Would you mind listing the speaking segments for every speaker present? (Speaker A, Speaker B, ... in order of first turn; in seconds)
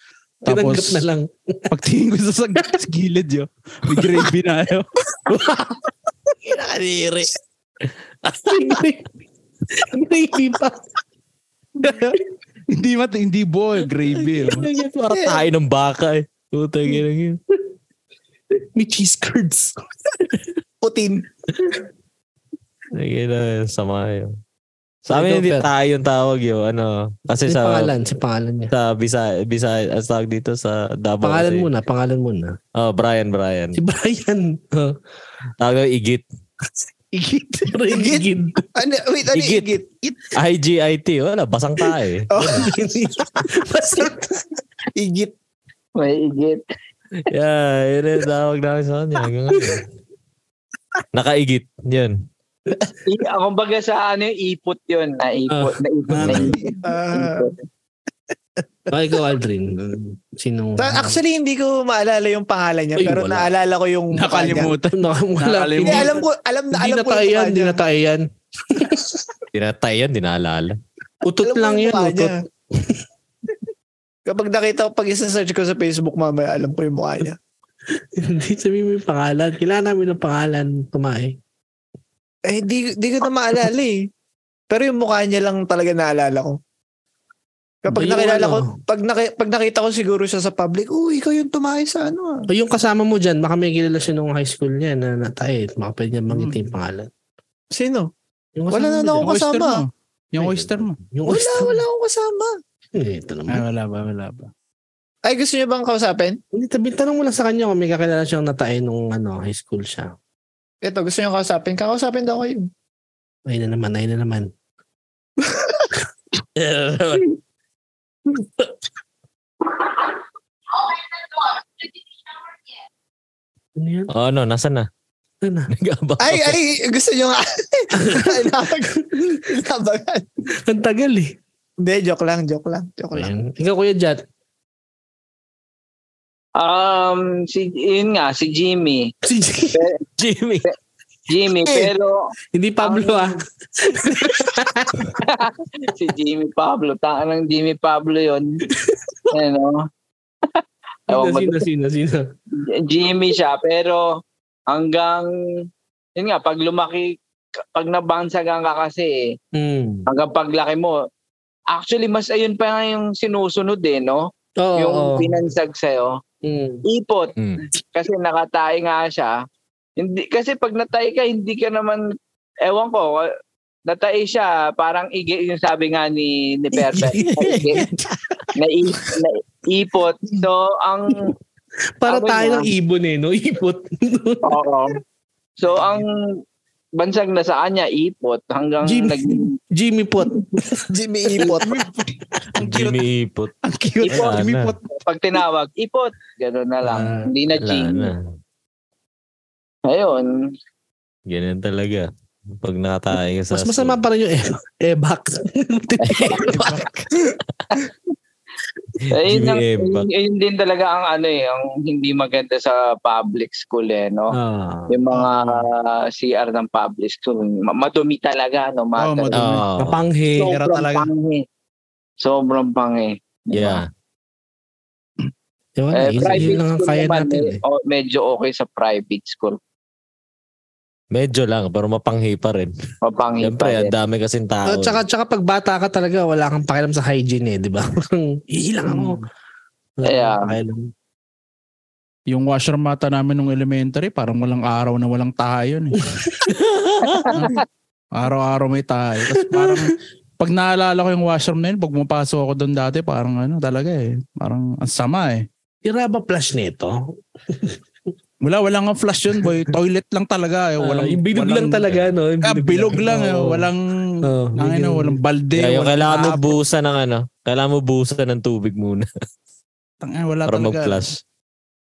Speaker A: 0.4-1.8, 4.0-4.2, 5.3-5.7, 8.4-9.1, 9.7-10.8, 14.3-15.3, 18.6-20.4, 25.1-25.7, 27.5-28.7, 31.2-32.6, 33.7-35.0, 37.7-38.6, 42.5-44.6, 49.6-49.8, 55.5-56.5, 58.9-61.2, 63.0-63.4, 64.9-66.2, 66.7-69.3, 71.2-73.0, 77.9-81.4, 87.9-88.7, 92.5-97.1, 98.5-99.3, 100.4-101.8, 102.9-103.6, 106.5-110.1, 113.5-114.5, 123.8-124.1, 125.4-125.7, 128.0-128.7, 130.6-131.3, 133.1-134.2, 139.2-139.8, 142.5-145.2, 148.8-149.2, 151.1-152.2, 159.5-160.1, 164.6-165.3, 166.4-166.8, 176.8-177.8, 182.0-184.6, 188.8-191.6, 196.8-197.2, 203.5-206.9, 214.3-214.9, 219.8-220.5, 225.8-227.6, 234.7-239.2, 240.0-240.9, 249.3-249.9, 255.8-257.8, 260.8-263.7, 264.2-265.2
Speaker B: 0.4-1.1, 1.7-4.9, 12.7-14.7, 37.2-37.6, 56.1-56.8, 64.1-66.2, 96.3-96.7, 99.2-101.0, 103.5-104.5, 177.4-178.0, 191.4-193.1, 193.6-194.8, 215.1-215.7, 219.0-219.6, 220.4-221.1, 238.8-239.2, 242.3-246.2, 248.1-255.4, 258.4-261.9, 262.4-266.6, 270.0-271.2
Speaker C: 6.4-7.3, 8.2-8.7, 15.0-17.4, 22.9-24.4, 25.1-27.9, 28.7-31.7, 32.8-33.8, 35.6-36.2, 39.3-39.7, 40.3-42.7, 47.2-49.9, 51.1-52.1, 63.1-63.4, 69.5-70.8, 116.5-117.3, 124.1-124.9, 125.7-126.6, 140.2-140.6, 192.6-193.5, 194.1-194.7, 197.6-198.3, 201.3-204.0, 209.1-210.1, 219.3-220.0, 223.5-223.9, 231.1-232.7, 233.4-235.0, 246.6-247.3, 265.6-269.1, 270.4-271.1
Speaker D: 20.8-21.2, 37.9-39.9, 42.3-42.7, 45.0-45.3, 56.8-57.5, 60.8-64.7, 65.8-67.8, 71.4-72.3, 74.3-77.4, 82.5-84.1, 84.7-86.6, 87.8-92.5, 97.7-98.1, 98.7-99.8, 101.2-102.5, 105.2-106.4, 110.8-112.7, 126.2-130.2, 131.8-133.3, 190.9-191.8
Speaker E: 46.0-46.6, 53.0-56.6, 57.1-57.5, 136.6-139.1, 139.7-140.0, 141.3-143.3, 145.2-148.6, 149.3-149.8, 150.5-151.6, 152.6-154.1, 154.7-155.3, 156.2-157.2, 157.7-159.3, 160.1-161.0, 161.7-166.2, 166.8-169.3, 170.0-172.1, 172.6-173.3, 173.9-177.8, 178.6-181.3, 182.1-182.7, 184.4-185.0, 185.6-186.1, 186.9-189.5, 194.1-194.4, 194.9-198.1, 199.9-200.3, 206.0-206.6, 209.1-214.4, 214.9-219.5, 220.3-221.4, 222.2-223.8, 225.9-229.6, 233.0-233.9, 240.0-240.6, 247.0-247.6